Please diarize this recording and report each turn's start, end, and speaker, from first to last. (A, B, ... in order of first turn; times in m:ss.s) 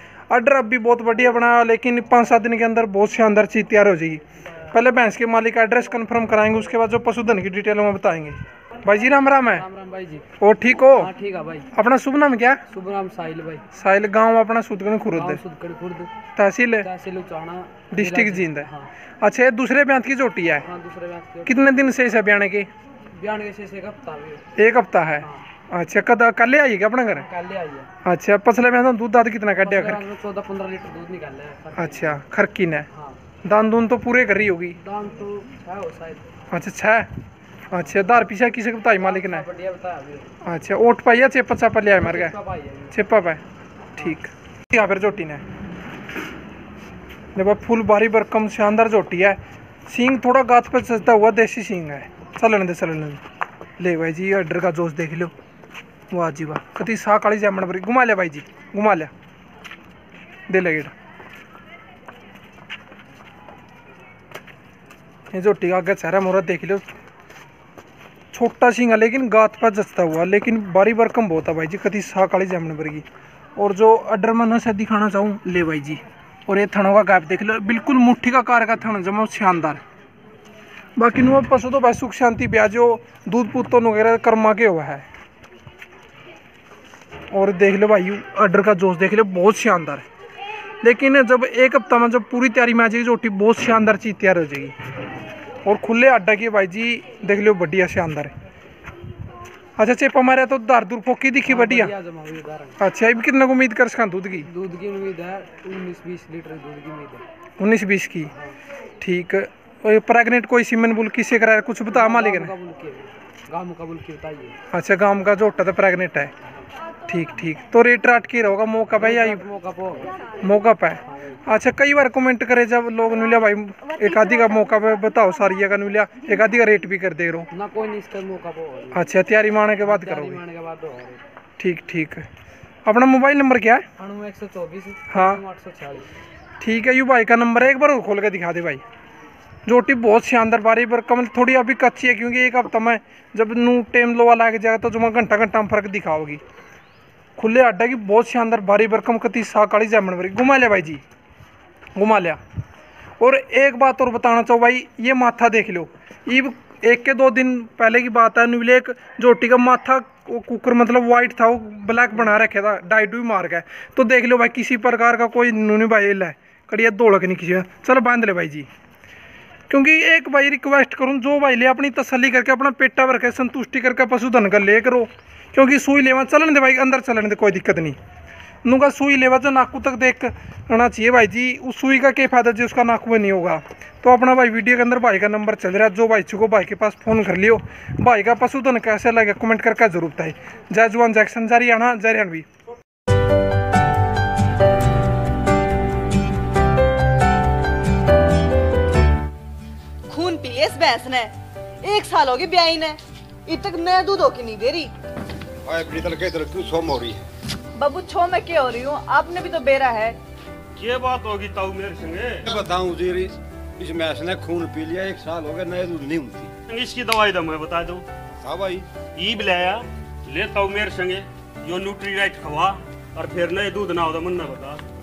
0:00.3-0:09.6 A
0:09.4-0:10.3 B
0:10.4-0:11.1 A
0:10.9-0:11.7 B
0:11.7-0:12.6 A
0:12.7-0:13.6 B
0:13.7-0:15.4 A
0:15.1-0:16.1 B
0:16.4-0:16.9 A
0:16.8-0:18.9 B
0:17.9-0:18.7 A
0:19.2-0:20.6 A
0:20.6-0:21.7 B
0:21.4-0:22.7 A
0:23.1-0:24.4 B
0:24.6-0:27.3 A
0:27.1-0:27.9 B
0:28.0-0:30.0 A
0:29.6-0:32.2 B
0:31.8-0:32.9 A
0:32.9-0:33.2 B
0:33.4-0:34.8 A
0:34.8-0:36.4 B
0:36.5-0:37.1 A
0:37.7-0:39.5 A
0:38.9-0:40.3 B
0:40.4-0:42.4 A
0:42.0-0:43.0 B
0:42.9-0:43.4 A
0:44.0-0:45.4 A
0:47.3-0:53.2 A
0:53.8-0:55.3 A
0:56.1-0:59.1 A
1:00.5-1:00.9 A
1:05.3-1:06.8 A
1:08.3-1:13.0 A
1:13.6-1:19.8 A
1:21.0-1:25.0 A
1:27.3-1:30.0 A
1:30.8-1:34.7 A
1:35.6-1:38.3 A
1:39.8-1:41.9 A
1:41.4-1:42.8 B
1:42.8-1:44.5 A
1:44.4-1:47.2 B
1:47.6-1:48.3 A
1:48.3-1:48.6 B
1:49.0-1:52.6 A
1:51.9-1:54.6 B
1:54.7-1:56.3 A
1:57.1-1:59.5 A
1:59.0-2:00.4 B
2:00.4-2:07.5 A
2:01.1-2:01.4 B
2:07.5-2:09.0 B
2:08.9-2:10.4 A
2:09.8-2:11.2 B
2:11.6-2:12.2 A
2:12.8-2:13.9 A
2:14.0-2:16.1 B
2:15.1-2:15.4 A
2:16.6-2:18.8 A
2:19.6-2:26.4 A
2:27.4-2:31.0 A
2:31.9-2:32.4 A
2:33.2-2:48.7 A
2:49.7-2:58.0 A
2:58.6-3:12.5 A
3:20.1-3:25.0 C
3:25.6-3:27.2 D
3:27.8-3:30.2 C
3:30.8-3:32.5 E
3:32.4-3:36.5 D
3:36.7-3:38.0 E
3:38.4-3:38.9 D
3:39.1-3:44.8 E